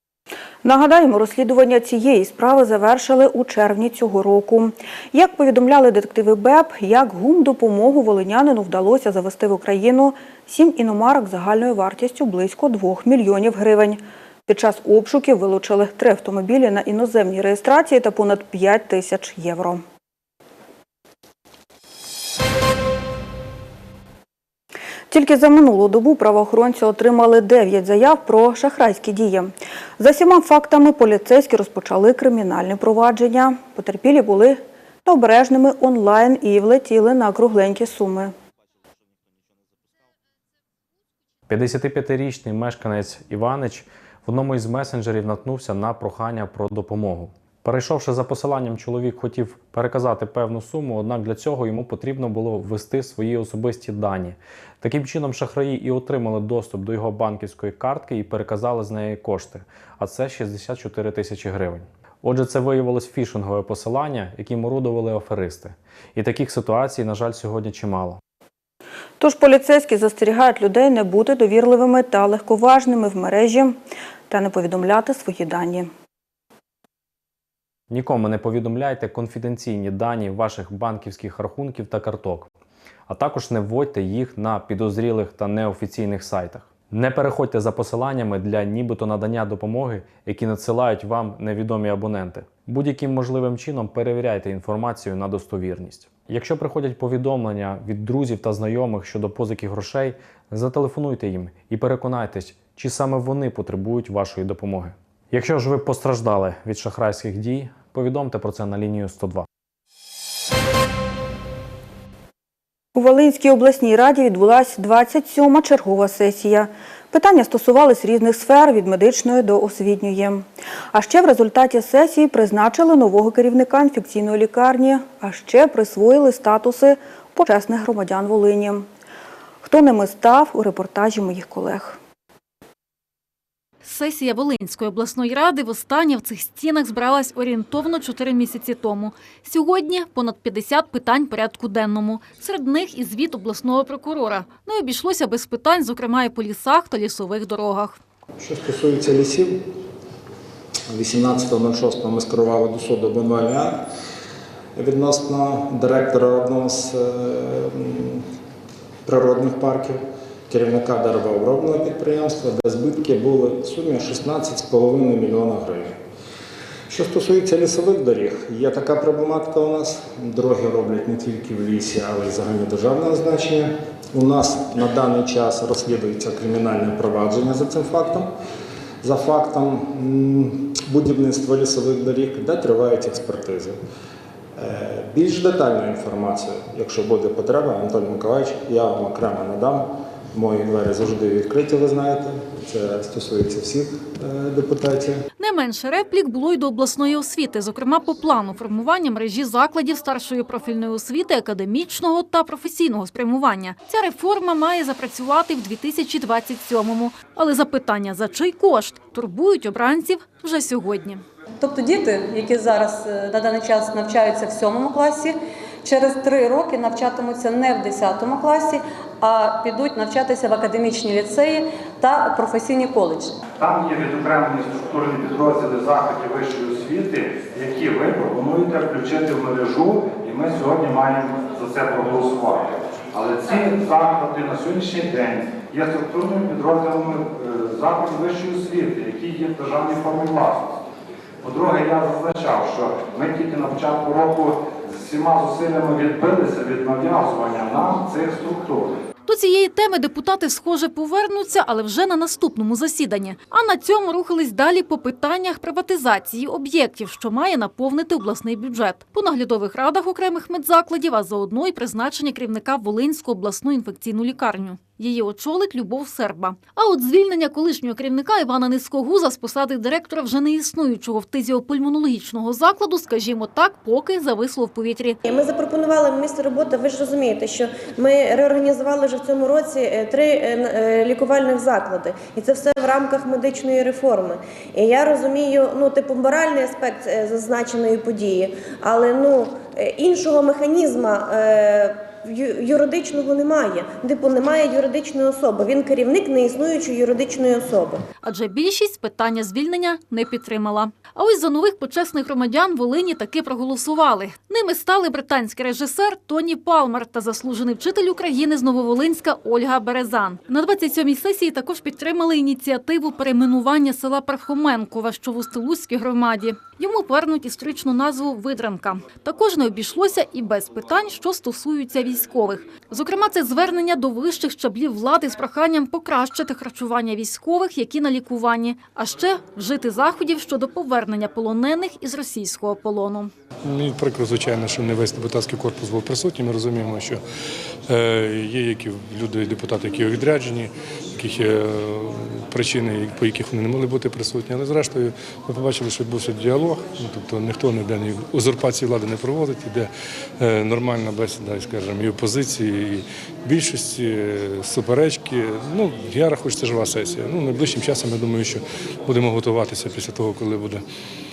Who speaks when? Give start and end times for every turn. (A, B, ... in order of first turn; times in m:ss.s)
0:00.6-0:19.8 A
0:25.1-0:38.4 A
0:41.5-1:08.2 B
1:09.2-1:15.9 A
1:17.9-1:22.5 B
1:23.1-1:49.5 B
1:53.0-2:08.9 A
2:09.6-2:12.0 A
2:13.8-2:28.0 C
2:28.4-2:29.8 D
2:30.9-2:33.9 D
2:34.8-2:38.3 D
2:39.0-2:46.0 D
2:46.9-2:58.3 D
2:59.0-3:03.8 D
3:04.6-3:15.2 D
3:15.4-3:31.2 C
3:31.6-3:43.4 E
3:43.6-4:00.8 F
4:01.4-4:09.0 F
4:09.3-4:35.2 C
4:35.2-4:58.0 G
4:58.2-5:33.3 C
5:33.6-5:37.2 H
5:37.9-6:00.8 H